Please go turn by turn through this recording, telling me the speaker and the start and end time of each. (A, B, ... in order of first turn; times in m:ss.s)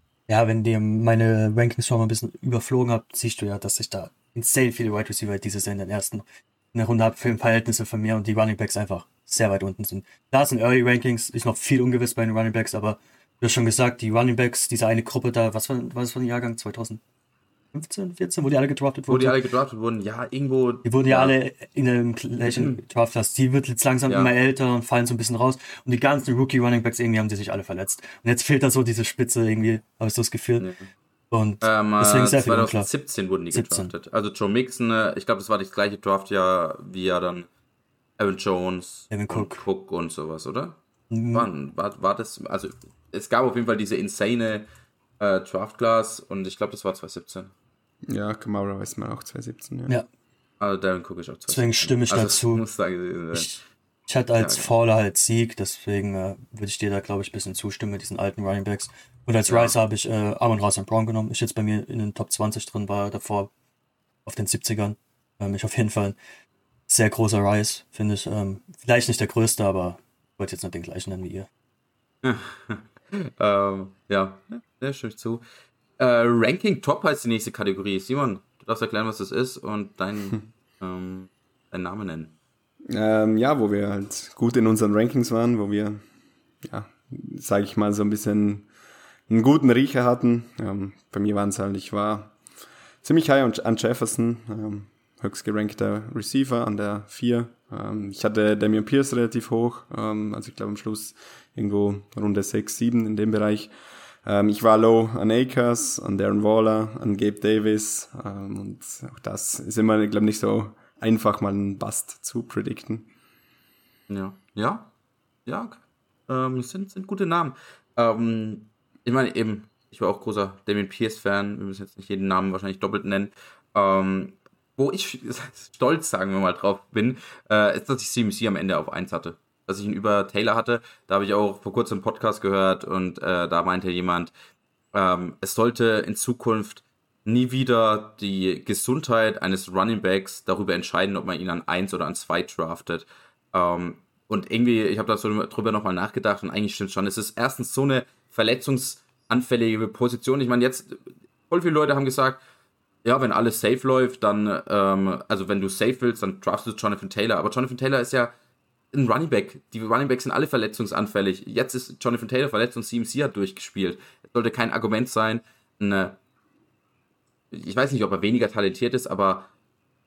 0:00.3-0:17.0 A
0:17.7-0:19.5 A
0:19.1-0:21.4 B
0:20.8-0:30.7 A
0:22.5-0:22.8 B
0:31.3-0:32.9 A
0:31.6-0:37.5 B
0:33.5-0:33.9 A
0:38.2-0:40.8 B
0:39.1-0:39.6 A
0:41.1-0:41.5 A
0:41.3-0:44.7 B
0:45.2-0:47.5 B
0:48.1-0:50.0 C
0:50.6-0:53.6 B
0:51.5-0:52.6 A
0:53.3-1:03.5 A
0:54.4-0:54.7 B
0:59.5-0:59.8 B
1:04.3-1:06.2 A
1:06.9-1:11.5 A
1:12.2-1:15.4 B
1:16.0-1:22.4 B
1:22.9-1:26.0 C
1:26.6-1:28.7 C
1:29.3-1:32.4 C
1:33.0-1:43.7 C
1:44.2-1:53.1 C
1:54.1-1:54.9 B
1:55.5-2:14.3 B
2:14.9-2:32.4 B
2:33.0-2:38.3 B
2:38.9-2:46.2 B
2:47.5-2:49.5 B